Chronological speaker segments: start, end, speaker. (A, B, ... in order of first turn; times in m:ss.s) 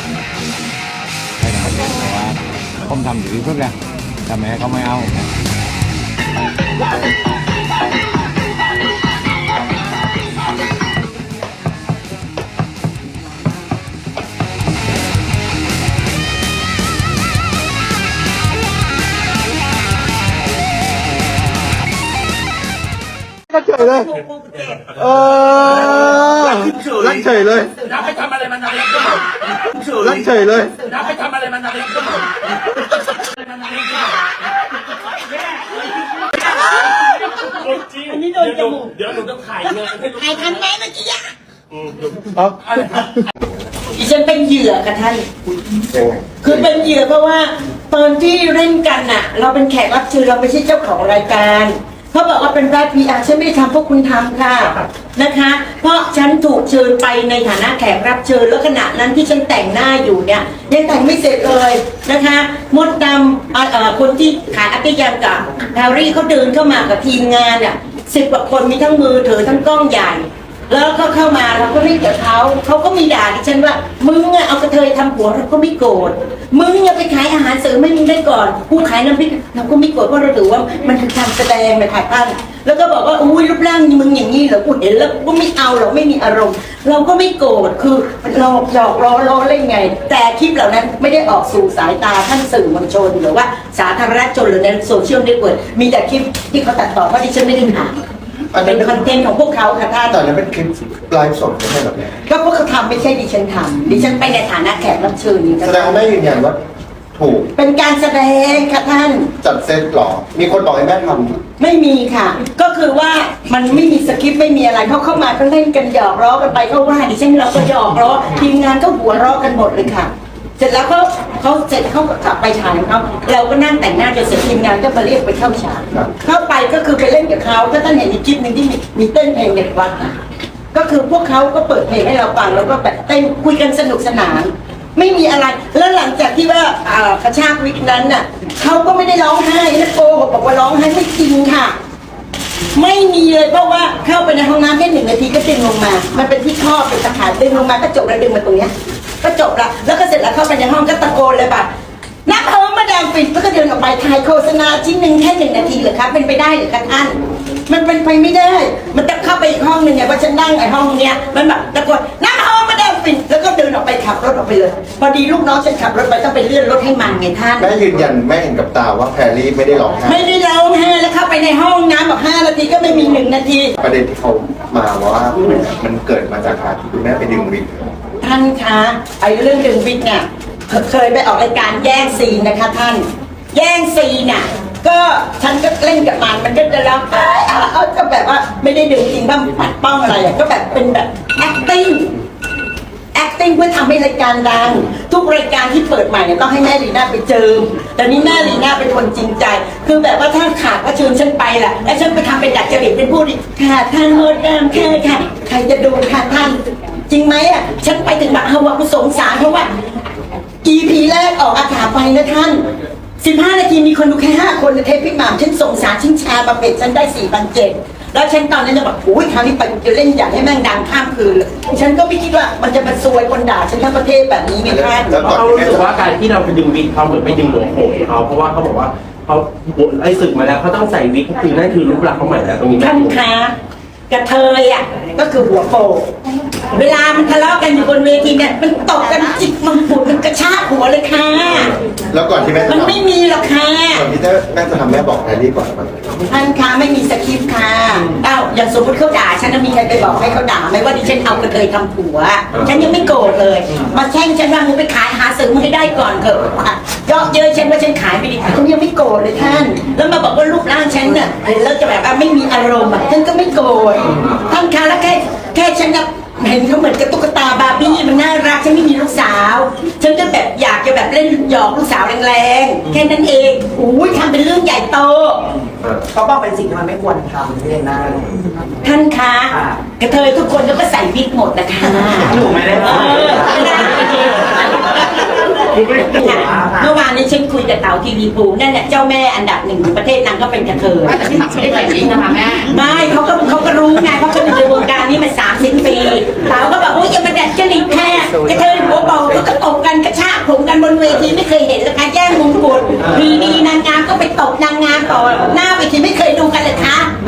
0:01.5-0:02.4 A
0:03.0-0:03.7 A
0:04.3-0:05.1 A
0:23.6-0:24.6 B
0:25.0-0:32.2 C
0:25.2-0:26.4 D
0:27.2-0:27.7 D
0:30.4-0:30.7 D
0:36.4-0:39.0 B
0:37.3-0:40.4 C
0:39.8-0:41.3 B
0:41.9-0:42.8 C
0:43.8-0:45.3 B
0:45.9-0:46.8 D
0:46.4-1:38.0 B
1:38.5-1:39.0 D
1:38.5-1:40.2 B
1:40.1-1:42.2 D
1:42.3-1:46.0 B
1:45.6-1:46.6 D
1:47.2-1:47.5 D
1:47.6-1:49.3 B
1:49.4-1:51.4 D
1:51.6-2:10.2 B
2:10.7-2:21.8 B
2:22.7-2:31.7 B
2:32.3-2:47.7 B
2:47.6-2:50.2 D
2:50.0-2:53.8 B
2:53.8-2:57.9 D
2:58.2-3:12.2 B
3:13.1-3:26.6 B
3:27.1-3:29.7 B
3:30.6-3:32.6 B
3:33.2-3:45.1 B
3:44.7-3:45.9 D
3:45.2-3:53.2 C
3:52.8-3:53.6 B
3:54.1-3:56.1 B
3:56.7-4:01.8 B
4:02.1-4:03.0 D
4:02.7-4:04.0 B
4:03.9-4:06.1 D
4:06.2-4:35.5 B
4:36.1-4:38.7 E
4:38.8-5:07.1 B
4:42.3-4:44.2 E
4:46.3-4:46.8 E